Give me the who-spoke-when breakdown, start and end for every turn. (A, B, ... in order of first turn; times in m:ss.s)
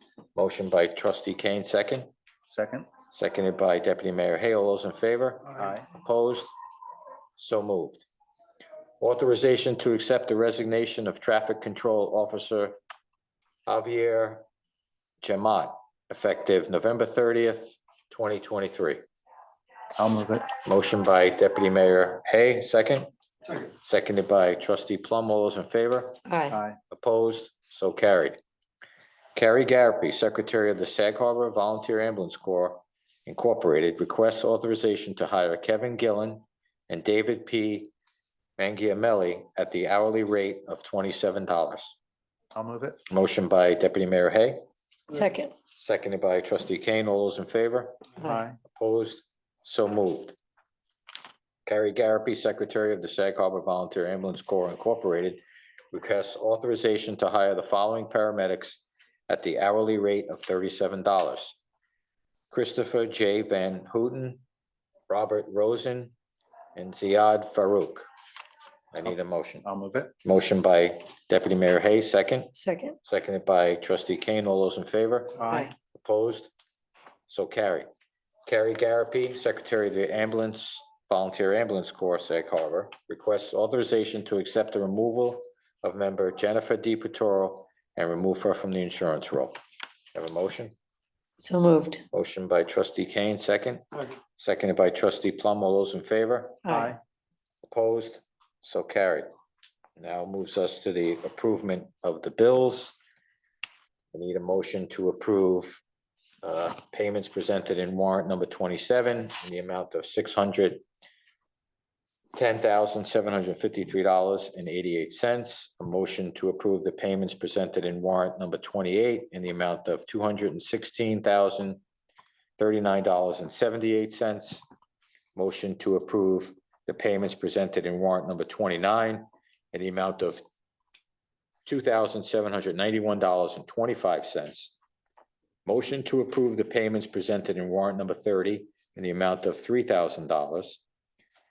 0:00.4-0:02.1 A
0:02.5-0:02.9 B
0:03.1-0:06.5 A
0:05.5-0:05.9 B
0:07.4-0:08.1 A
0:09.0-0:12.8 A
0:13.7-0:14.4 A
0:15.2-0:19.0 A
0:20.0-0:20.5 B
0:20.6-0:23.1 A
0:23.6-0:26.2 A
0:26.3-0:26.6 C
0:26.5-0:26.8 B
0:26.9-0:28.4 A
0:29.4-0:37.9 A
0:38.6-0:42.0 A
0:42.5-0:43.0 B
0:43.1-0:44.6 A
0:45.1-0:45.5 C
0:45.8-0:50.4 A
0:48.2-0:48.6 B
0:51.7-0:55.4 A
0:55.9-1:01.6 A
1:02.5-1:04.4 A
1:05.1-1:06.1 A
1:06.8-1:08.1 A
1:08.9-1:09.6 A
1:09.6-1:10.1 B
1:10.2-1:16.5 A
1:12.5-1:13.0 C
1:15.4-1:15.7 B
1:17.3-1:17.9 A
1:18.5-1:29.6 A
1:30.2-1:30.7 A
1:31.4-1:32.0 C
1:32.1-1:36.6 A
1:36.6-1:36.9 C
1:36.7-1:37.0 B
1:37.6-1:39.3 A
1:40.0-1:43.0 A
1:44.1-1:45.8 A
1:46.4-1:50.8 A
1:52.4-2:01.8 A
2:02.6-2:04.6 A
2:05.4-2:10.4 A
2:11.7-2:14.8 A
2:15.7-2:20.8 A